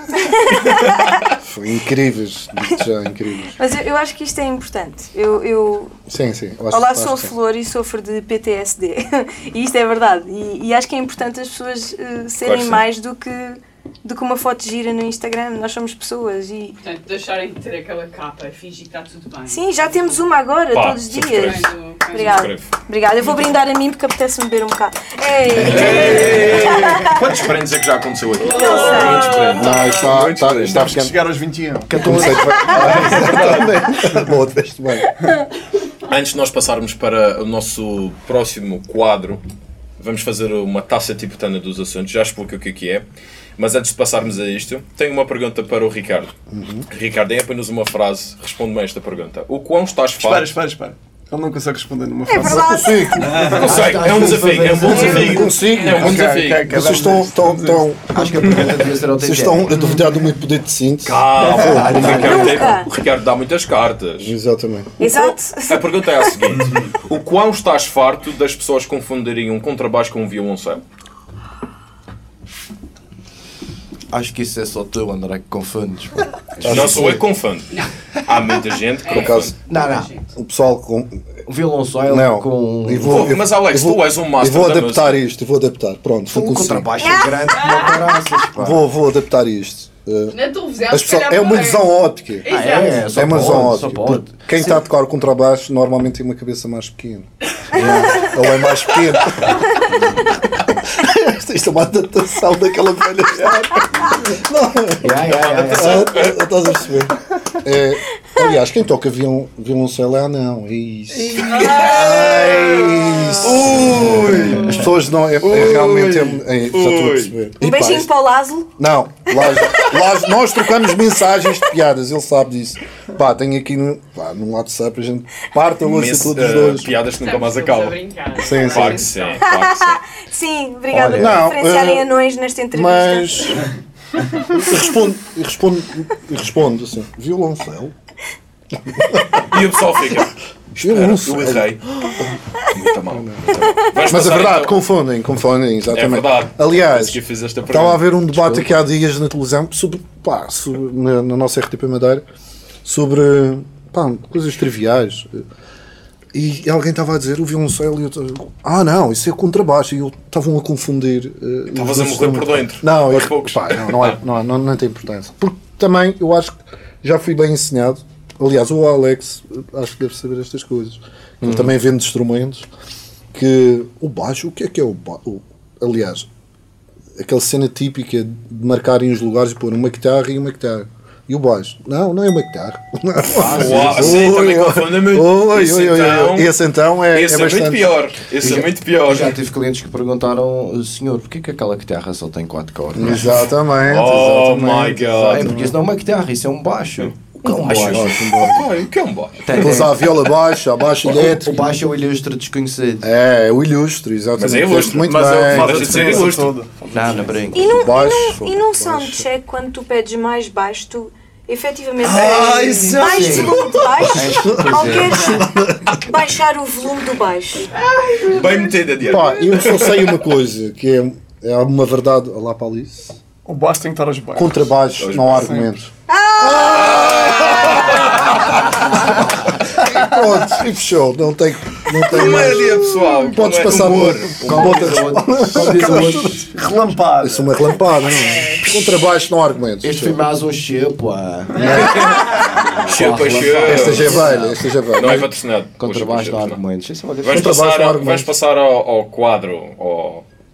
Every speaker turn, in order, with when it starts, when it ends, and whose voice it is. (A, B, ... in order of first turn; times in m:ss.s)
0:00.2-0:01.2 A
0:01.4-0:03.6 B
0:03.6-0:06.0 A
0:06.1-0:07.3 B
0:06.7-0:16.8 A
0:12.4-0:12.8 C
0:16.8-0:20.2 D
0:19.4-0:27.3 A
0:20.7-0:22.7 C
0:21.3-0:22.5 D
0:25.5-0:26.9 E
0:25.6-0:31.0 C
0:25.8-0:26.3 D
0:28.4-0:30.1 D
0:28.4-0:29.5 A
0:29.5-0:31.2 B
0:30.6-0:32.4 F
0:31.9-0:32.8 E
0:32.0-0:35.1 B
0:32.6-0:33.9 C
0:36.1-0:39.4 C
0:40.0-0:43.0 C
0:43.6-0:46.3 C
0:46.5-0:46.9 B
0:46.9-0:50.6 C
0:50.2-0:53.6 F
0:52.3-0:53.4 A
0:52.4-0:53.5 B
0:53.4-0:56.7 C
0:53.4-0:55.6 E
0:54.8-1:02.5 B
0:54.9-0:58.5 F
0:58.1-0:59.7 E
0:59.8-1:00.1 F
1:01.0-1:04.3 C
1:01.5-1:01.9 F
1:01.6-1:02.6 E
1:02.0-1:02.9 A
1:04.2-1:05.0 B
1:05.0-1:06.3 A
1:05.7-1:10.8 C
1:14.1-1:17.2 E
1:16.6-1:17.2 B
1:16.7-1:19.5 C
1:19.0-1:20.3 D
1:19.1-1:19.6 B
1:19.6-1:20.1 E
1:20.3-1:21.2 B
1:21.5-1:23.3 E
1:22.1-1:27.2 B
1:23.0-1:25.2 C
1:26.3-1:28.8 E
1:27.0-1:28.2 A
1:27.5-1:28.0 D
1:28.5-1:30.4 B
1:30.3-1:33.0 D
1:30.9-1:58.1 B
1:32.4-1:34.8 E
1:37.8-1:38.2 E
1:43.4-1:44.1 F
1:45.0-1:46.1 E
1:45.2-1:46.4 C
1:51.1-1:51.9 F
1:51.5-1:52.7 C
1:51.7-1:52.5 D
1:53.4-1:54.8 C
1:55.4-1:57.3 C
1:57.6-1:58.7 A
1:58.8-2:07.0 B
1:59.4-1:59.9 A
2:05.8-2:08.0 C
2:07.2-2:09.5 D
2:08.4-2:09.1 B
2:08.5-2:10.0 C
2:09.4-2:13.6 A
2:10.9-2:12.1 B
2:12.7-2:13.6 B
2:14.4-2:17.9 B
2:18.8-2:19.4 B
2:19.5-2:21.8 C
2:20.7-2:22.3 B
2:22.7-2:24.8 C
2:23.1-2:32.2 B
2:25.9-2:28.1 C
2:28.3-2:28.7 E
2:32.8-2:35.4 B
2:36.3-2:52.7 B
2:41.7-2:44.2 C
2:51.4-2:51.7 E
2:53.3-2:56.3 B
2:57.2-3:08.0 B
3:03.3-3:04.2 E
3:03.5-3:06.5 C
3:07.1-3:09.4 C
3:08.4-3:13.4 E
3:12.9-3:15.7 B
3:13.8-3:15.5 C
3:15.3-3:17.2 E
3:17.4-3:18.7 B
3:17.4-3:17.9 A
3:17.6-3:19.8 C
3:19.4-3:20.1 E
3:19.5-3:21.6 B
3:21.0-3:23.1 E
3:23.0-3:26.2 B
3:24.4-3:26.6 C
3:24.9-3:27.5 F
3:26.9-3:27.8 E
3:27.5-3:37.7 A
3:27.8-3:29.3 B
3:32.0-3:36.1 B
3:33.0-3:35.4 E
3:37.7-3:39.0 D
3:38.3-3:40.2 C
3:39.0-3:43.2 B
3:43.4-3:44.7 F
3:44.3-3:49.2 B
3:45.0-3:45.6 C
3:45.4-3:45.7 F
3:46.1-3:47.5 A
3:46.4-3:49.2 C
3:49.8-4:00.2 B
3:49.8-3:50.2 F
3:51.9-3:55.0 C
3:54.4-3:56.4 E
3:55.5-3:58.2 F
3:59.8-4:04.6 E
4:01.5-4:02.1 B
4:01.6-4:04.3 C
4:03.6-4:05.3 B
4:04.9-4:06.6 C
4:05.8-4:07.6 E
4:07.2-4:10.2 C
4:07.2-4:08.3 B